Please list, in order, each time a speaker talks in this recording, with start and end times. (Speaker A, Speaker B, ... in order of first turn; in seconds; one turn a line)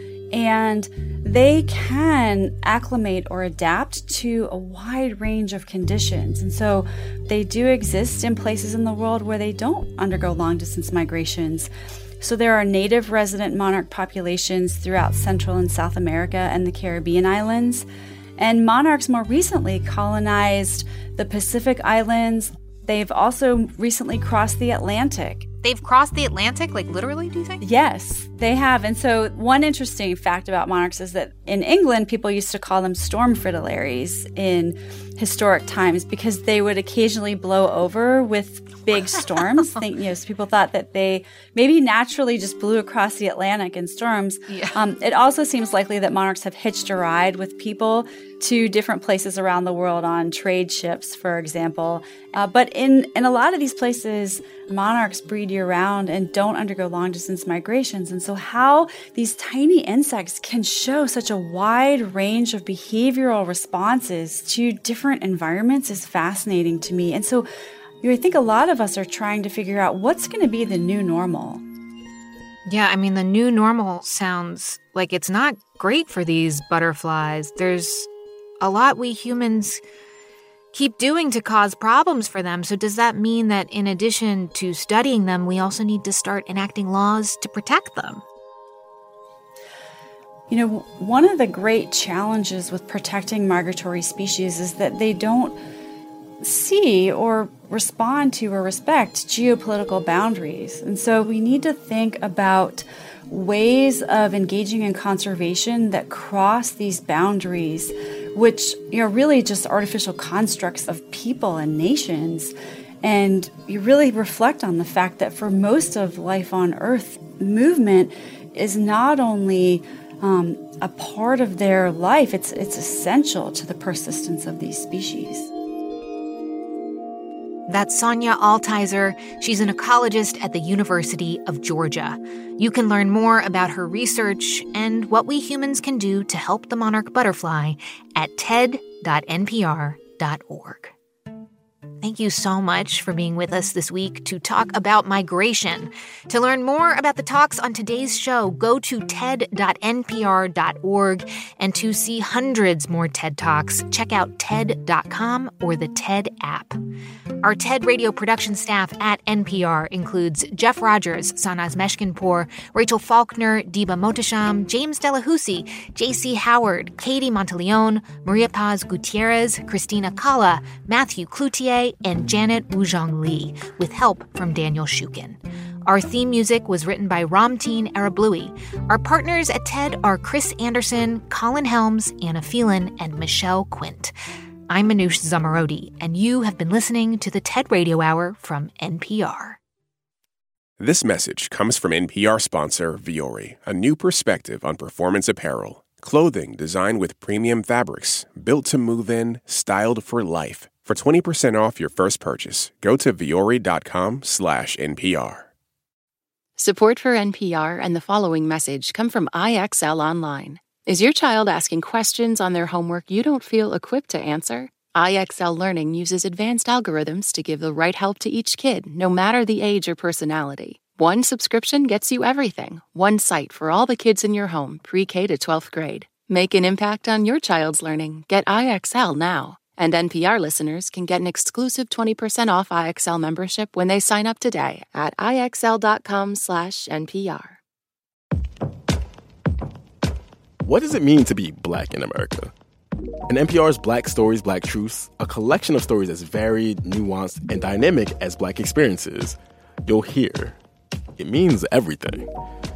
Speaker A: 0.3-11.7
Speaker A: 12.2-17.9
Speaker A: 18.4-25.5
Speaker B: 25.6-27.6
Speaker A: 27.6-67.5
Speaker B: 44.5-44.8
Speaker A: 68.0-71.6
Speaker B: 72.7-78.1
Speaker B: 78.6-79.8
Speaker B: 80.7-88.2
Speaker A: 90.5-95.6
Speaker A: 96.4-125.5
Speaker B: 127.7-140.9
Speaker B: 142.0-156.8
Speaker B: 157.4-184.1
Speaker B: 184.7-189.6
Speaker C: 190.8-205.5
Speaker D: 206.6-237.6
Speaker E: 240.6-242.5
Speaker E: 243.3-250.6
Speaker E: 251.2-252.3